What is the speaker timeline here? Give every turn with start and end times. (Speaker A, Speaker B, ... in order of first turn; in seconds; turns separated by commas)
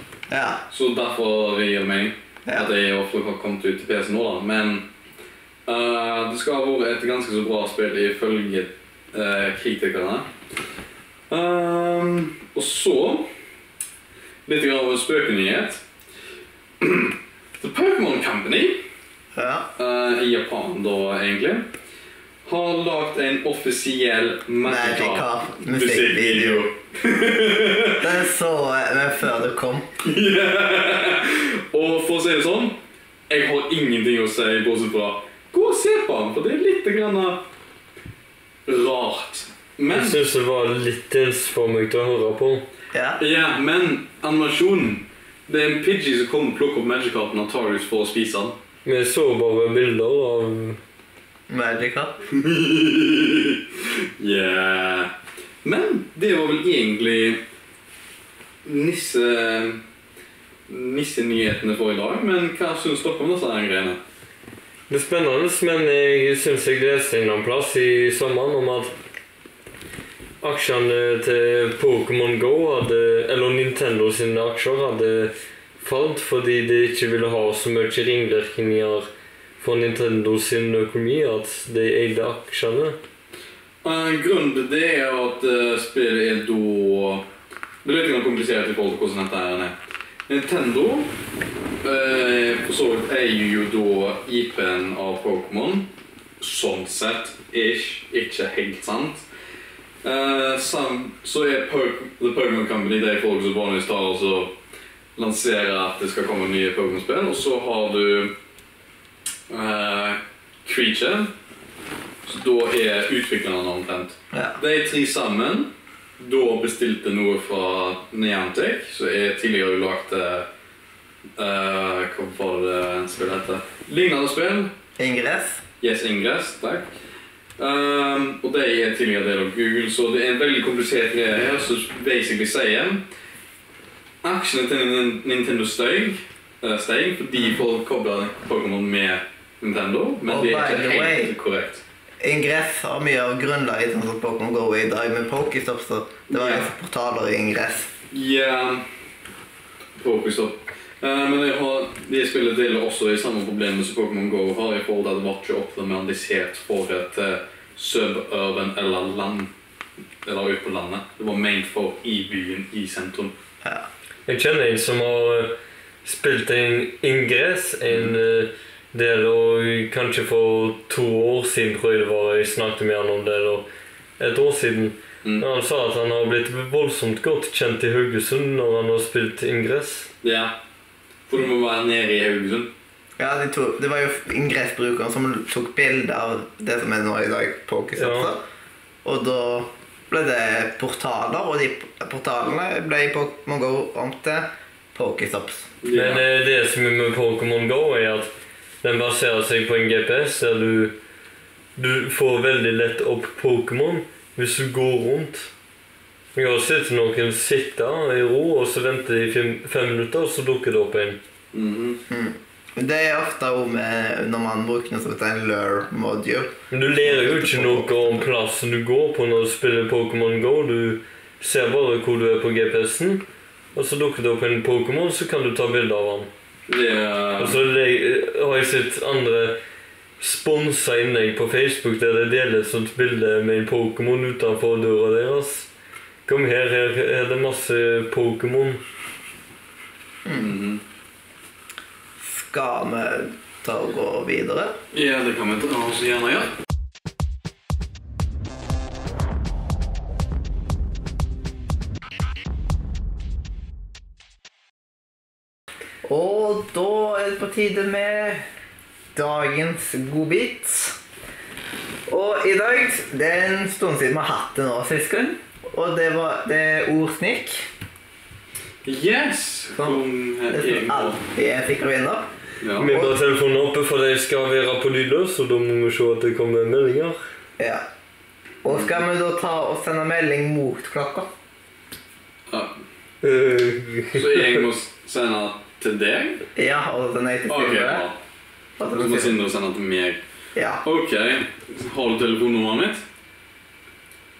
Speaker A: 0.3-0.6, Speaker B: 0.7-4.8, Speaker B: 5.7-10.3, Speaker B: 11.3-13.3, Speaker B: 14.4-15.8, Speaker B: 16.8-18.8, Speaker A: 19.3-19.7, Speaker B: 19.8-21.7, Speaker B: 22.4-28.1, Speaker A: 24.6-26.7, Speaker A: 27.9-29.9, Speaker B: 30.0-32.8, Speaker B: 33.3-37.4, Speaker B: 38.7-40.2, Speaker C: 39.9-42.6, Speaker A: 42.9-43.2, Speaker B: 43.2-48.5, Speaker C: 48.8-50.8, Speaker A: 51.5-52.2, Speaker B: 52.3-53.6, Speaker B: 54.2-55.1, Speaker B: 55.6-57.4, Speaker B: 58.6-59.8, Speaker B: 60.7-64.0, Speaker C: 64.9-68.9, Speaker C: 70.4-79.1, Speaker C: 79.6-83.0, Speaker B: 83.8-87.2, Speaker B: 87.8-89.7, Speaker B: 90.3-91.1, Speaker B: 91.8-95.9, Speaker B: 96.4-99.2, Speaker B: 100.0-104.5, Speaker B: 105.2-108.3, Speaker B: 109.5-111.3, Speaker B: 112.2-120.5, Speaker A: 114.3-114.6, Speaker B: 121.4-124.7, Speaker A: 125.0-125.6, Speaker B: 125.8-126.9, Speaker B: 127.6-133.0, Speaker B: 134.2-141.8, Speaker A: 140.2-141.3, Speaker A: 142.2-147.9, Speaker B: 146.3-146.7, Speaker B: 148.1-148.8, Speaker B: 150.0-159.5, Speaker B: 160.2-163.3, Speaker C: 164.3-173.7, Speaker C: 174.2-180.1, Speaker B: 180.2-180.5, Speaker B: 181.3-182.7, Speaker A: 183.2-188.4, Speaker C: 188.0-188.3, Speaker A: 189.0-195.7, Speaker B: 195.8-196.2, Speaker C: 195.9-198.3, Speaker C: 198.8-200.9, Speaker C: 201.8-205.5, Speaker C: 206.3-211.2, Speaker B: 211.5-212.0, Speaker A: 212.1-218.2, Speaker C: 216.7-223.2, Speaker C: 223.7-226.3, Speaker B: 226.7-227.6, Speaker C: 227.4-229.6, Speaker C: 230.2-235.7, Speaker C: 236.3-238.8, Speaker A: 240.2-240.5, Speaker B: 240.3-240.8, Speaker A: 242.2-244.8, Speaker B: 244.9-246.5, Speaker A: 256.0-258.4, Speaker A: 259.1-261.0, Speaker A: 262.1-267.6, Speaker B: 268.8-271.2, Speaker A: 269.7-272.3, Speaker B: 272.6-272.9, Speaker C: 272.8-277.2, Speaker A: 272.8-273.1, Speaker A: 277.6-277.9, Speaker A: 278.6-281.3, Speaker B: 282.5-282.7, Speaker C: 283.2-284.3, Speaker B: 284.1-286.4, Speaker A: 286.6-288.0, Speaker B: 287.5-288.2, Speaker A: 288.8-289.3, Speaker B: 288.9-290.2, Speaker A: 290.5-290.8, Speaker B: 290.8-293.0